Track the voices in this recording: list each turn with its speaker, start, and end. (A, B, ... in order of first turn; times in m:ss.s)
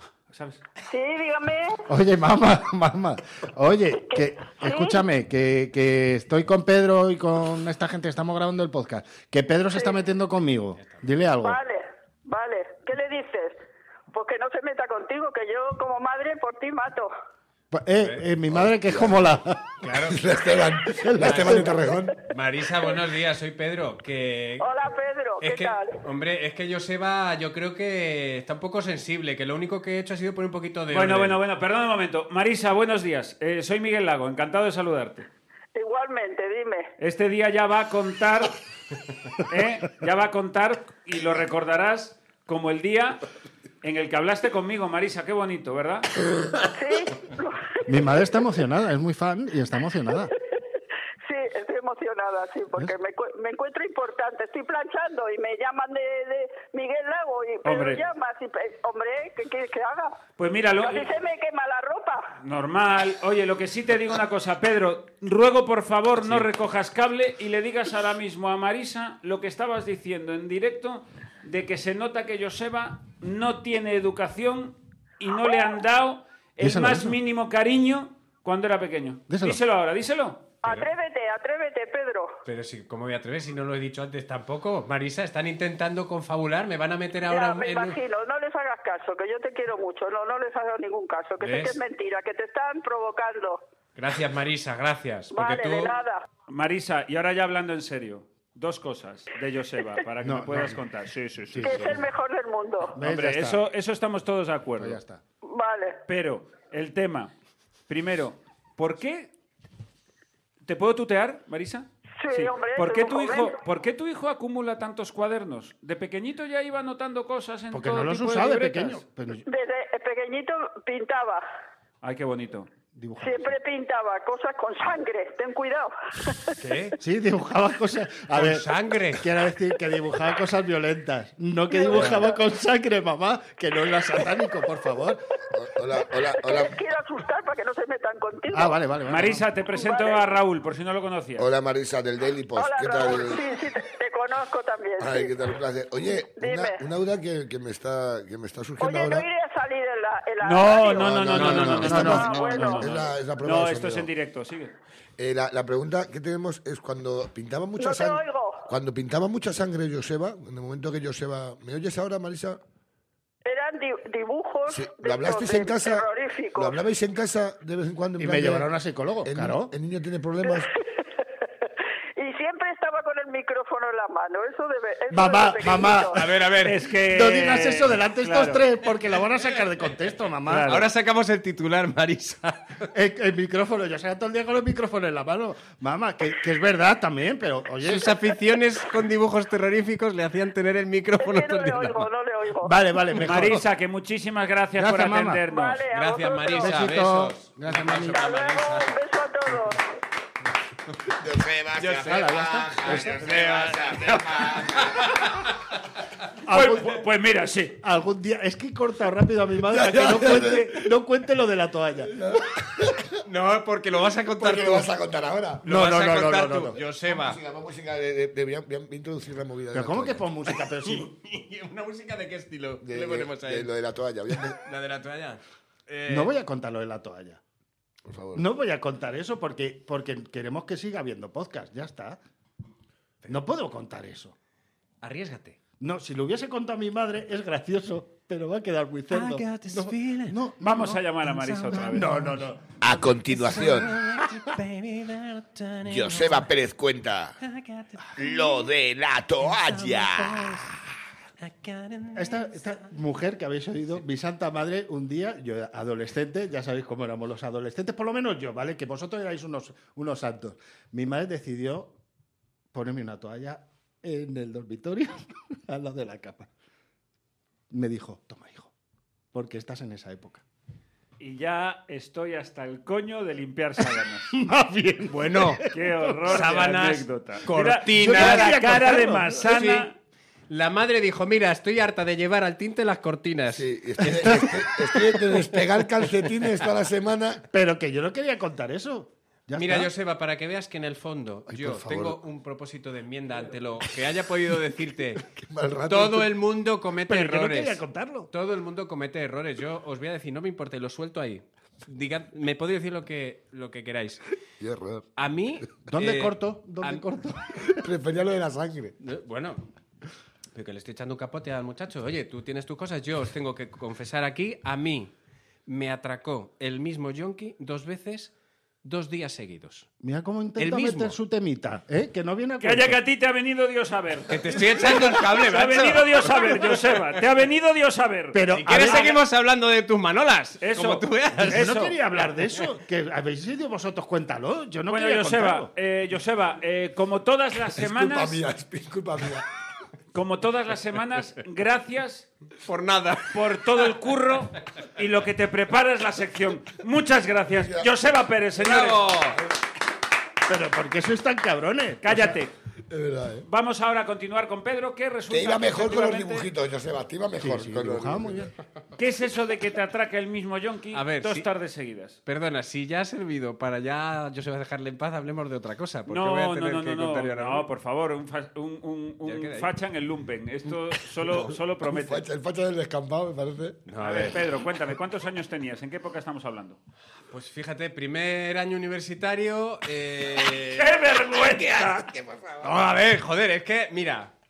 0:00.3-0:00.6 A
0:00.8-0:01.9 B
0:01.9-0:11.6 C
0:04.1-0:05.0 B
0:11.4-0:17.1 B
0:17.7-0:19.7 C
0:18.0-0:18.2 D
0:18.5-0:19.3 E
0:19.8-0:20.2 D
0:19.9-0:22.2 E
0:20.9-0:21.9 C
0:21.2-0:21.7 D
0:22.3-0:24.7 D
0:24.6-0:26.0 B
0:25.4-0:31.4 D
0:30.9-0:35.3 A
0:35.7-0:36.9 B
0:37.0-0:38.6 A
0:39.4-0:43.2 A
0:43.8-0:46.1 A
0:46.7-0:47.8 B
0:47.9-0:50.3 C
0:51.2-1:00.2 B
0:57.6-0:58.0 A
1:00.4-1:01.1 A
1:00.8-1:02.3 B
1:02.4-1:20.5 A
1:06.2-1:06.4 D
1:16.6-1:17.2 C
1:19.3-1:19.6 C
1:20.6-1:22.4 B
1:22.4-1:28.0 D
1:27.2-1:33.6 B
1:31.4-1:31.8 D
1:33.9-1:35.9 D
1:35.3-1:36.2 B
1:36.5-1:42.0 A
1:40.2-1:40.8 C
1:41.5-1:42.0 C
1:41.6-1:43.0 B
1:43.0-1:43.6 C
1:43.0-1:45.0 A
1:44.8-1:45.2 C
1:45.4-1:46.0 B
1:46.1-1:47.3 A
1:47.9-1:49.3 A
1:50.6-1:59.0 A
1:52.2-1:53.6 B
1:57.7-1:59.4 C
1:59.5-2:01.4 B
2:02.0-2:02.7 A
2:02.9-2:03.5 C
2:03.2-2:06.5 B
2:06.6-2:07.0 D
2:07.0-2:15.2 C
2:08.3-2:09.2 D
2:11.7-2:12.4 B
2:15.5-2:16.8 E
2:16.3-2:18.8 B
2:18.5-2:19.5 C
2:19.1-2:21.5 A
2:19.7-2:20.2 B
2:21.4-2:23.5 E
2:22.6-2:25.3 B
2:25.0-2:29.2 E
2:26.4-2:26.8 B
2:28.8-2:33.0 B
2:30.4-2:34.7 A
2:30.9-2:34.1 E
2:31.3-2:32.2 D
2:31.8-2:32.2 C
2:35.2-2:42.6 E
2:37.8-2:38.7 B
2:43.4-2:46.8 B
2:44.7-2:48.7 E
2:48.2-2:49.7 C
2:49.2-2:50.7 E
2:50.5-2:56.2 B
2:55.1-2:56.2 C
2:56.1-2:56.8 D
2:56.6-2:58.6 A
2:57.0-3:00.8 C
3:00.4-3:00.9 A
3:00.6-3:02.9 D
3:02.9-3:08.2 C
3:07.8-3:12.1 D
3:11.2-3:12.8 B
3:12.6-3:13.6 C
3:13.1-3:15.8 A
3:14.8-3:15.4 C
3:15.5-3:17.0 B
3:15.9-3:18.9 D
3:16.6-3:18.2 C
3:17.9-3:19.9 B
3:21.1-3:25.1 E
3:21.8-3:25.5 D
3:22.0-3:23.2 C
3:26.4-3:27.0 C
3:26.5-3:27.8 A
3:27.8-3:32.3 C
3:29.6-3:30.9 E
3:32.1-3:33.1 E
3:33.2-3:34.9 D
3:34.4-3:40.3 E
3:35.6-3:37.4 D
3:35.6-3:36.7 C
3:39.7-3:41.1 C
3:40.8-3:43.7 D
3:42.8-3:44.6 E
3:44.5-3:46.3 D
3:46.1-3:47.4 C
3:48.0-3:48.4 E
3:48.3-3:52.2 C
3:53.3-3:54.3 C
3:55.0-3:55.6 D
3:55.8-4:02.8 C
3:59.1-4:00.4 D
4:00.6-4:02.1 A
4:01.4-4:02.3 D
4:02.8-4:04.0 E
4:03.3-4:06.5 D
4:05.8-4:07.4 E
4:07.4-4:08.6 D
4:08.2-4:10.7 E
4:09.5-4:10.8 D
4:11.4-4:12.5 D
4:12.1-4:22.0 C
4:22.7-4:26.5 C
4:27.7-4:28.7 C
4:29.3-4:30.4 C
4:31.2-4:34.3 A
4:34.3-4:36.4 C
4:35.1-4:35.6 D
4:35.7-4:39.9 A
4:36.2-4:38.7 D
4:38.0-4:39.5 C
4:39.4-4:39.9 D
4:40.5-4:45.1 D
4:43.5-4:47.5 E
4:47.5-4:49.9 C
4:49.6-4:55.3 D
4:51.6-4:52.2 E
4:55.2-4:56.3 E
4:55.9-5:04.2 D
4:57.0-4:58.3 C
5:04.6-5:05.0 E
5:05.2-5:07.0 D
5:05.9-5:07.9 C
5:07.6-5:09.0 E
5:09.0-5:09.7 D
5:10.5-5:15.1 D
5:15.6-5:19.9 D
5:20.0-5:23.0 C
5:20.6-5:21.2 D
5:22.6-5:29.2 A
5:24.3-5:27.0 D
5:28.3-5:29.2 C
5:28.5-5:31.8 D
5:30.6-5:32.0 A
5:31.4-5:35.7 C
5:34.9-5:38.4 A
5:37.7-5:39.5 E
5:40.1-5:42.3 A
5:42.6-5:43.4 D
5:43.3-5:49.2 A
5:47.6-5:47.9 E
5:48.6-5:49.4 D
5:50.5-5:52.4 C
5:52.0-5:52.5 A
5:52.9-5:53.5 E
5:53.4-5:56.5 A
5:55.3-5:58.5 E
5:57.4-5:58.5 C
5:59.0-6:02.2 A
6:00.9-6:01.5 D
6:02.2-6:07.7 D
6:06.1-6:12.2 A
6:09.2-6:09.7 D
6:11.8-6:13.8 E
6:13.9-6:14.4 D
6:14.0-6:16.8 A
6:17.3-6:20.9 D
6:20.4-6:22.1 A
6:21.5-6:22.7 E
6:22.6-6:24.3 D